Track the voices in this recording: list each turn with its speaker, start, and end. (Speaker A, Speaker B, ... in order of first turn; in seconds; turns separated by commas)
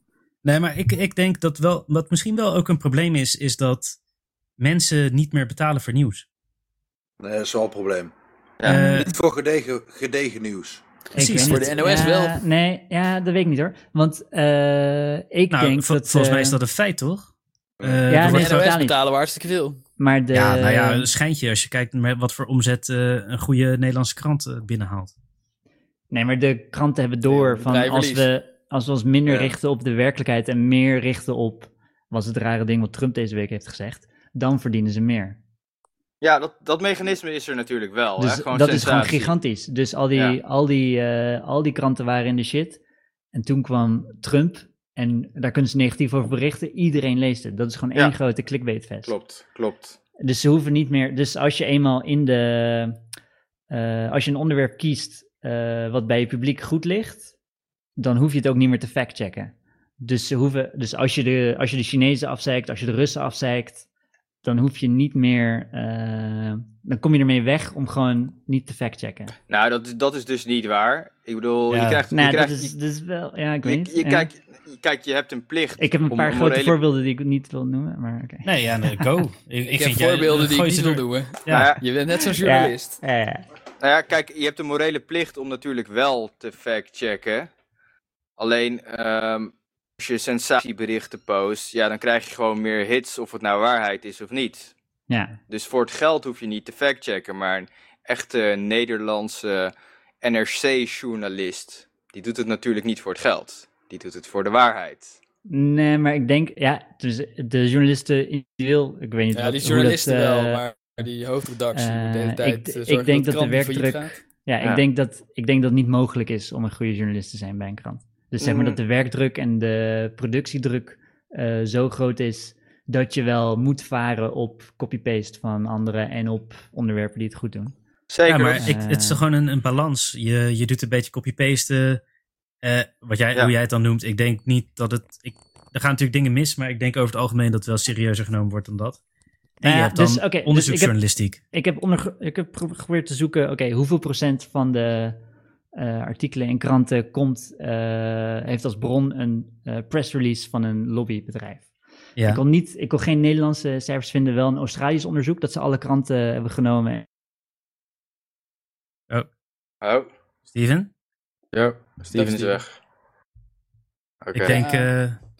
Speaker A: 0.4-4.0, Speaker A: 4.6-6.3, Speaker B: 7.2-8.1, Speaker A: 8.7-9.1, Speaker B: 8.7-10.8, Speaker C: 11.2-16.6, Speaker A: 11.2-11.8, Speaker D: 11.2-12.4, Speaker A: 15.5-17.3, Speaker A: 17.8-18.8, Speaker C: 18.1-19.0, Speaker D: 18.1-19.8, Speaker C: 20.0-21.1, Speaker A: 20.3-25.1, Speaker C: 26.1-35.4, Speaker D: 27.3-28.3, Speaker E: 29.3-29.5, Speaker E: 36.2-39.3, Speaker C: 38.2-42.8, Speaker C: 43.3-49.1, Speaker E: 49.1-50.0, Speaker C: 50.2-53.0, Speaker C: 53.7-57.3, Speaker C: 58.0-63.9, Speaker C: 64.4-69.3, Speaker E: 69.5-72.7, Speaker A: 71.7-72.0, Speaker C: 72.1-74.3, Speaker E: 73.6-76.8, Speaker C: 75.8-79.1, Speaker A: 78.4-81.8, Speaker D: 79.7-83.0, Speaker E: 81.5-81.8, Speaker C: 82.4-83.5, Speaker E: 83.8-87.5, Speaker E: 88.4-94.7, Speaker C: 95.1-95.4, Speaker E: 95.5-105.2, Speaker C: 105.5-110.6, Speaker D: 109.3-114.2, Speaker C: 111.7-127.8, Speaker E: 118.4-118.8, Speaker E: 128.1-128.7, Speaker A: 128.3-132.0, Speaker C: 128.6-129.2, Speaker A: 132.6-139.0, Speaker A: 139.6-141.4, Speaker C: 139.6-145.2, Speaker C: 145.8-151.7, Speaker A: 152.2-152.4, Speaker C: 152.3-157.1, Speaker E: 159.8-160.1, Speaker A: 160.5-160.9, Speaker E: 161.5-162.7, Speaker D: 162.1-162.6, Speaker E: 164.2-164.6, Speaker A: 164.3-165.2, Speaker D: 164.5-164.9